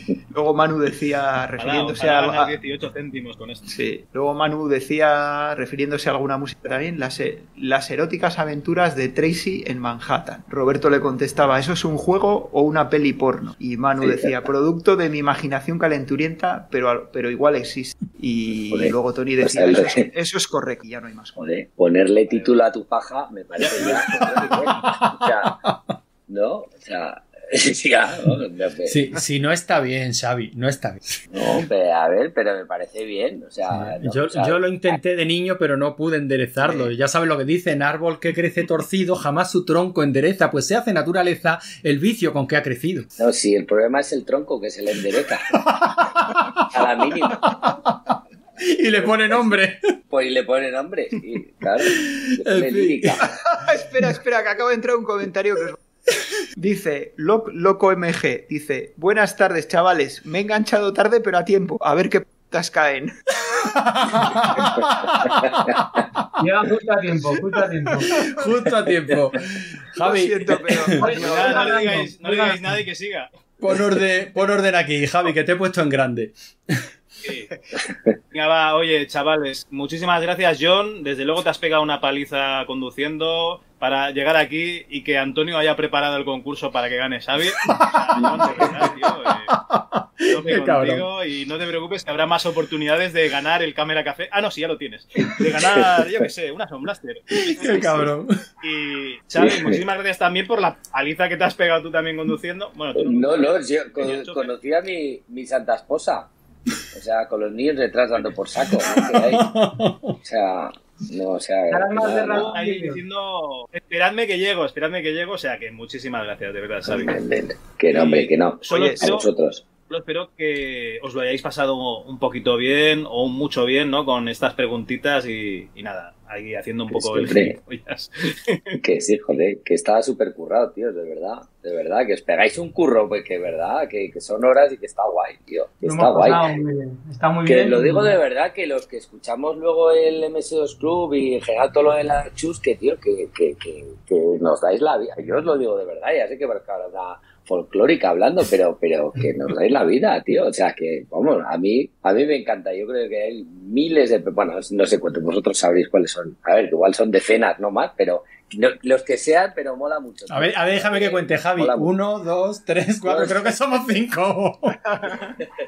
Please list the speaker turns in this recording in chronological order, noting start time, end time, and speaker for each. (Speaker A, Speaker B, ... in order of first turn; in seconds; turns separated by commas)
Speaker A: 0.3-2.5, Speaker B: 1.6-3.6, Speaker A: 3.7-21.4, Speaker C: 14.0-14.4, Speaker C: 18.7-20.1, Speaker C: 21.4-25.5, Speaker B: 22.3-22.6, Speaker A: 23.7-24.4, Speaker D: 24.6-25.8, Speaker C: 26.3-29.0, Speaker D: 28.9-31.2, Speaker C: 31.3-34.9, Speaker D: 33.7-43.1, Speaker C: 43.2-45.5, Speaker D: 45.6-49.8, Speaker C: 46.7-47.7, Speaker C: 50.1-53.2, Speaker D: 51.8-53.2, Speaker A: 53.2-55.8, Speaker A: 56.5-63.1, Speaker D: 63.5-66.3, Speaker A: 64.2-64.8, Speaker C: 65.2-65.8, Speaker E: 66.4-68.1, Speaker D: 68.1-71.0, Speaker A: 68.1-68.5, Speaker A: 70.0-72.1, Speaker E: 71.0-72.7, Speaker B: 71.1-73.3, Speaker D: 73.6-76.8, Speaker B: 77.2-77.5, Speaker B: 78.3-89.6, Speaker D: 87.6-91.1, Speaker C: 88.2-88.7, Speaker B: 90.3-97.7, Speaker C: 95.3-96.1, Speaker D: 97.3-98.4, Speaker C: 97.6-98.1, Speaker B: 98.6-104.5, Speaker C: 99.4-99.8, Speaker C: 102.9-106.3, Speaker C: 106.9-109.5, Speaker D: 108.8-110.2, Speaker C: 110.2-112.5, Speaker E: 111.7-113.0, Speaker B: 112.3-117.1, Speaker C: 116.9-119.6, Speaker B: 117.9-119.3, Speaker A: 118.7-119.2, Speaker B: 119.9-128.8, Speaker C: 126.9-127.6, Speaker C: 128.8-136.5, Speaker E: 135.8-138.2, Speaker C: 137.4-161.9, Speaker D: 160.3-164.8, Speaker C: 163.1-163.6